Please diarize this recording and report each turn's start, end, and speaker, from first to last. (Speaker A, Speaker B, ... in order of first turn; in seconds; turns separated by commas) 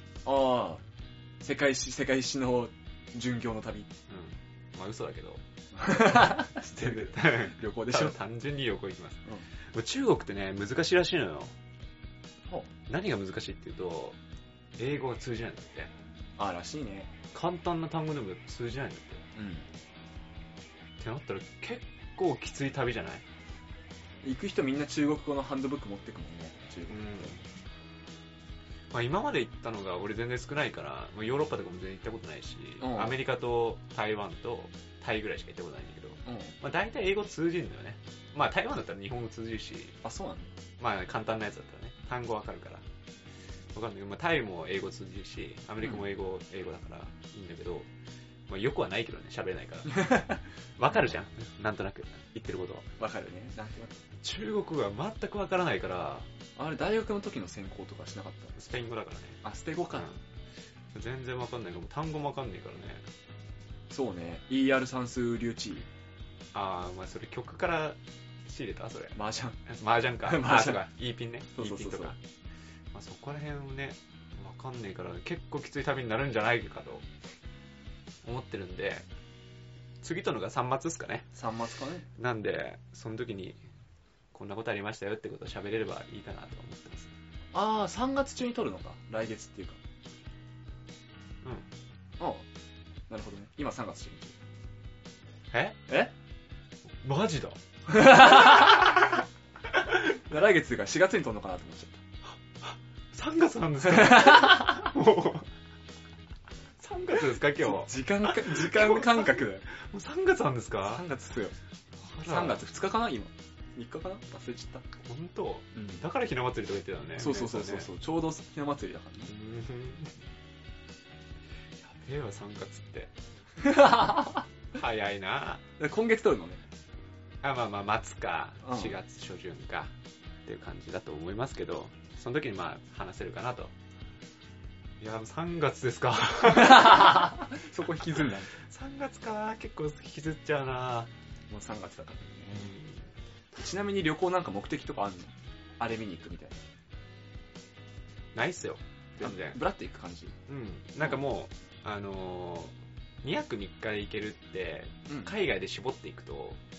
Speaker A: 0.2-0.8, Speaker A: 1.4-3.9, Speaker B: 4.1-5.4, Speaker A: 5.7-8.2, Speaker B: 6.3-11.6, Speaker B: 12.9-14.2, Speaker B: 14.8-15.9, Speaker A: 16.4-17.1, Speaker B: 17.3-19.2, Speaker A: 19.4-19.7, Speaker B: 21.0-23.2, Speaker A: 24.2-27.4, Speaker B: 26.9-27.4, Speaker B: 28.9-40.0, Speaker A: 32.8-33.2, Speaker A: 36.3-36.6, Speaker A: 40.0-40.5, Speaker B: 40.8-42.9, Speaker B: 43.7-47.9, Speaker B: 48.5-50.2, Speaker A: 49.9-50.4, Speaker B: 50.8-52.9, Speaker A: 53.0-54.0, Speaker B: 54.2-56.3, Speaker A: 56.6-58.6, Speaker B: 58.6-59.4, Speaker A: 59.4-60.1, Speaker B: 59.9-60.2, Speaker B: 60.9-63.1, Speaker A: 63.9-65.9, Speaker B: 66.5-72.2, Speaker A: 69.1-69.6, Speaker A: 70.2-70.8, Speaker A: 71.5-72.2, Speaker B: 72.9-77.1, Speaker B: 78.2-79.1, Speaker B: 80.0-81.3, Speaker A: 81.3-82.1, Speaker B: 82.2-83.6, Speaker B: 84.3-87.1, Speaker A: 87.5-89.8, Speaker A: 92.2-92.5, Speaker A: 93.1-94.4, Speaker B: 95.5-95.8, Speaker A: 95.9-96.1, Speaker B: 97.0-99.1, Speaker A: 97.9-99.1, Speaker A: 100.1-102.0, Speaker B: 102.6-105.5, Speaker A: 103.8-104.9, Speaker B: 106.8-111.0, Speaker A: 107.5-109.7, Speaker A: 110.8-111.6, Speaker B: 112.0-112.6, Speaker A: 112.2-114.9, Speaker B: 115.0-117.9, Speaker A: 115.8-116.0, Speaker A: 117.2-119.3, Speaker B: 119.3-120.2, Speaker B: 121.8-123.1, Speaker A: 123.6-124.4, Speaker B: 124.7-125.6, Speaker A: 125.8-126.6, Speaker B: 127.4-129.9, Speaker A: 128.6-129.0, Speaker B: 130.5-133.7, Speaker B: 135.0-137.3, Speaker A: 136.5-138.5, Speaker B: 138.6-141.1, Speaker A: 141.5-142.8, Speaker B: 142.5-143.1, Speaker A: 143.5-146.6, Speaker B: 148.3-149.6, Speaker A: 149.2-150.4, Speaker B: 150.5-156.6, Speaker A: 155.1-155.3